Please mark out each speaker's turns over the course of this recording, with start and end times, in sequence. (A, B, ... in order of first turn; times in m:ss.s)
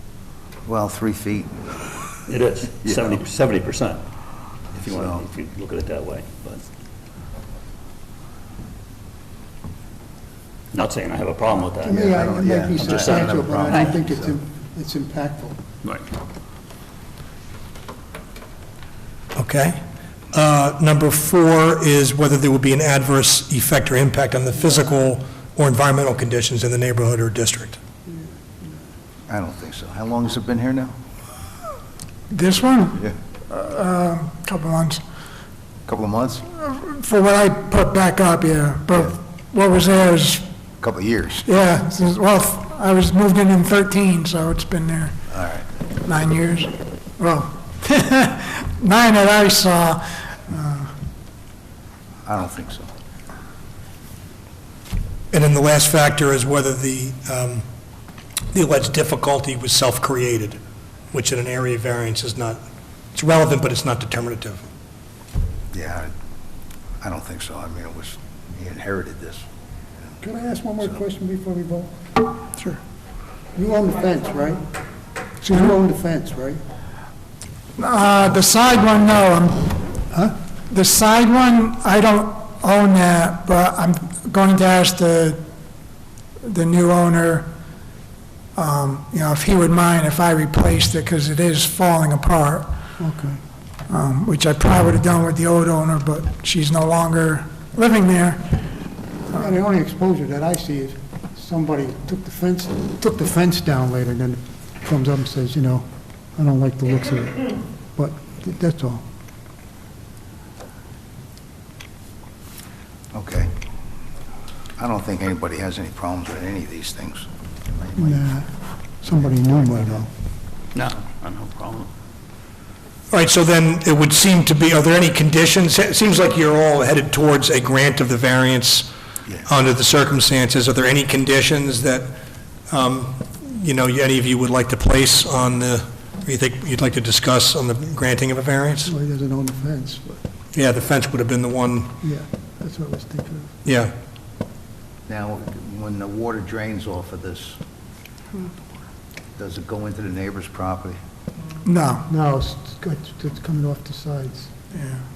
0:00.6-0:01.6 A
0:02.3-0:04.0 B
0:04.7-0:06.6 B
0:04.8-0:05.2 A
0:10.7-0:12.2 B
0:11.8-0:14.4 A
0:11.8-0:15.6 C
0:12.7-0:13.5 B
0:19.4-0:19.8 D
0:20.3-0:27.8 D
0:29.3-0:30.9 A
0:32.3-0:35.0 E
0:35.9-0:36.5 A
0:36.6-0:40.4 E
0:40.8-0:41.4 A
0:41.4-0:45.2 E
0:45.3-0:45.6 A
0:46.0-0:50.9 E
0:52.2-0:52.9 A
0:55.3-0:57.6 D
0:58.5-1:00.6 D
1:01.1-1:02.6 D
1:03.1-1:04.6 D
1:05.7-1:06.1 A
1:07.0-1:09.4 A
1:10.2-1:11.9 C
1:13.5-1:14.6 C
1:15.4-1:15.7 E
1:15.4-1:16.6 C
1:17.8-1:19.8 E
1:20.7-1:25.4 E
1:26.4-1:27.5 E
1:28.6-1:32.7 E
1:33.0-1:33.4 C
1:33.9-1:38.5 E
1:39.3-1:49.0 C
1:53.1-1:53.5 A
1:54.8-1:58.4 A
1:58.0-1:58.5 C
1:59.0-2:00.1 C
1:59.0-2:00.0 A
2:00.7-2:01.9 B
2:03.1-2:08.9 D
2:09.4-2:12.1 D
2:12.7-2:18.9 D
2:18.9-2:20.2 C
2:20.5-2:21.9 D
2:22.0-2:23.5 C
2:23.6-2:23.9 D
2:25.1-2:27.6 A
2:29.4-2:31.0 A
2:31.6-2:32.0 E
2:31.9-2:34.5 C
2:34.7-2:35.0 E